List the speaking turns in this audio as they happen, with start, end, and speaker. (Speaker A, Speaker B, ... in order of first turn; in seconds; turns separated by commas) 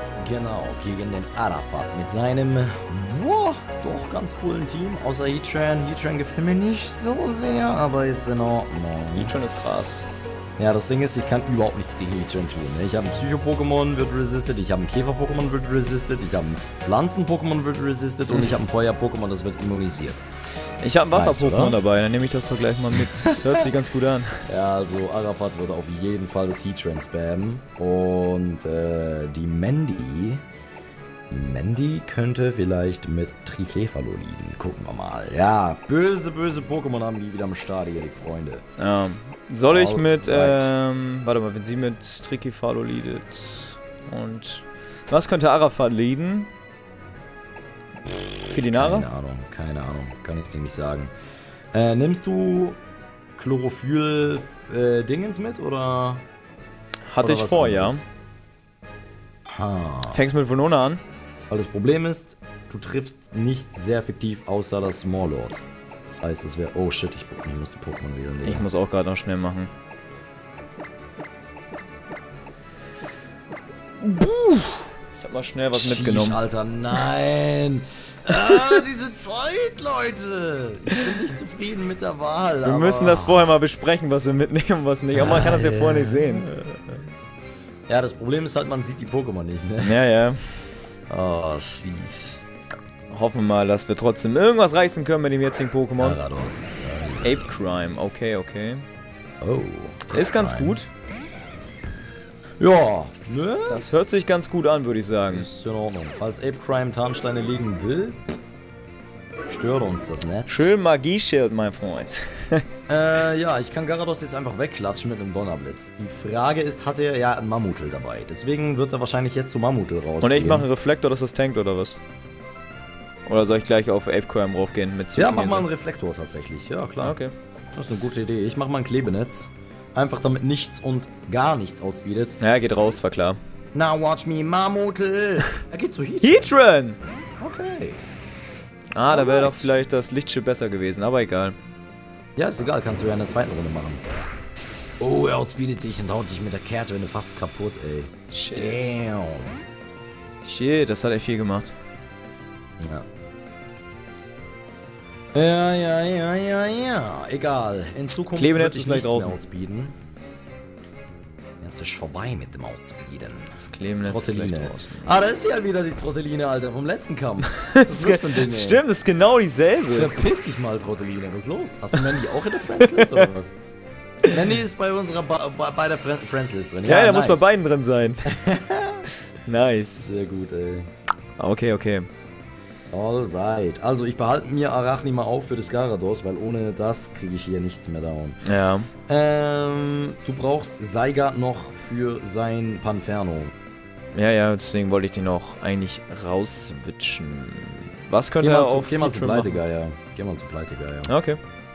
Speaker A: 0.2-9.4, Speaker B: 9.1-10.1, Speaker A: 10.6-20.2, Speaker B: 20.8-24.4, Speaker A: 21.1-21.8, Speaker A: 23.2-23.5, Speaker A: 24.5-30.4, Speaker A: 31.3-38.6, Speaker B: 38.8-46.5, Speaker A: 39.7-40.7, Speaker B: 48.5-49.1, Speaker A: 48.7-51.1, Speaker A: 51.7-52.8, Speaker A: 53.4-56.2, Speaker B: 57.1-58.0, Speaker A: 57.2-58.0, Speaker A: 59.5-60.2, Speaker B: 60.1-61.0, Speaker A: 61.5-68.6, Speaker B: 68.4-69.7, Speaker B: 74.0-76.4, Speaker A: 75.7-83.6, Speaker B: 78.3-78.7, Speaker B: 82.6-86.5, Speaker A: 85.2-86.8, Speaker A: 87.9-89.9, Speaker B: 89.8-90.6, Speaker A: 91.1-92.4, Speaker B: 93.1-96.2, Speaker A: 96.0-97.5, Speaker B: 97.2-98.8, Speaker A: 99.4-100.8, Speaker B: 100.1-100.9, Speaker A: 102.6-103.8, Speaker B: 103.7-105.5, Speaker A: 105.3-108.2, Speaker A: 109.5-110.7, Speaker B: 110.5-112.7, Speaker A: 112.9-120.7, Speaker B: 120.2-122.0, Speaker B: 123.3-125.7, Speaker A: 125.2-127.2, Speaker B: 127.0-127.3, Speaker A: 127.8-132.4, Speaker B: 132.4-133.4, Speaker A: 133.7-136.5, Speaker B: 136.2-137.0, Speaker A: 137.4-138.0, Speaker B: 139.0-141.6, Speaker A: 139.1-139.8, Speaker A: 142.4-144.0, Speaker A: 145.0-149.6, Speaker B: 148.3-148.9, Speaker B: 150.4-151.8, Speaker A: 152.8-153.1, Speaker A: 155.3-159.9, Speaker B: 158.3-159.4, Speaker A: 161.6-168.8, Speaker B: 163.6-165.2, Speaker B: 167.4-170.3, Speaker A: 169.9-173.6, Speaker B: 172.9-173.3, Speaker A: 174.2-177.5, Speaker B: 176.8-178.3, Speaker A: 178.3-179.1, Speaker B: 179.4-180.1, Speaker A: 180.0-180.9, Speaker B: 181.4-182.1, Speaker A: 182.9-188.4, Speaker B: 188.4-188.9, Speaker A: 189.1-193.5, Speaker B: 194.2-199.6, Speaker A: 198.4-201.1, Speaker B: 201.1-201.4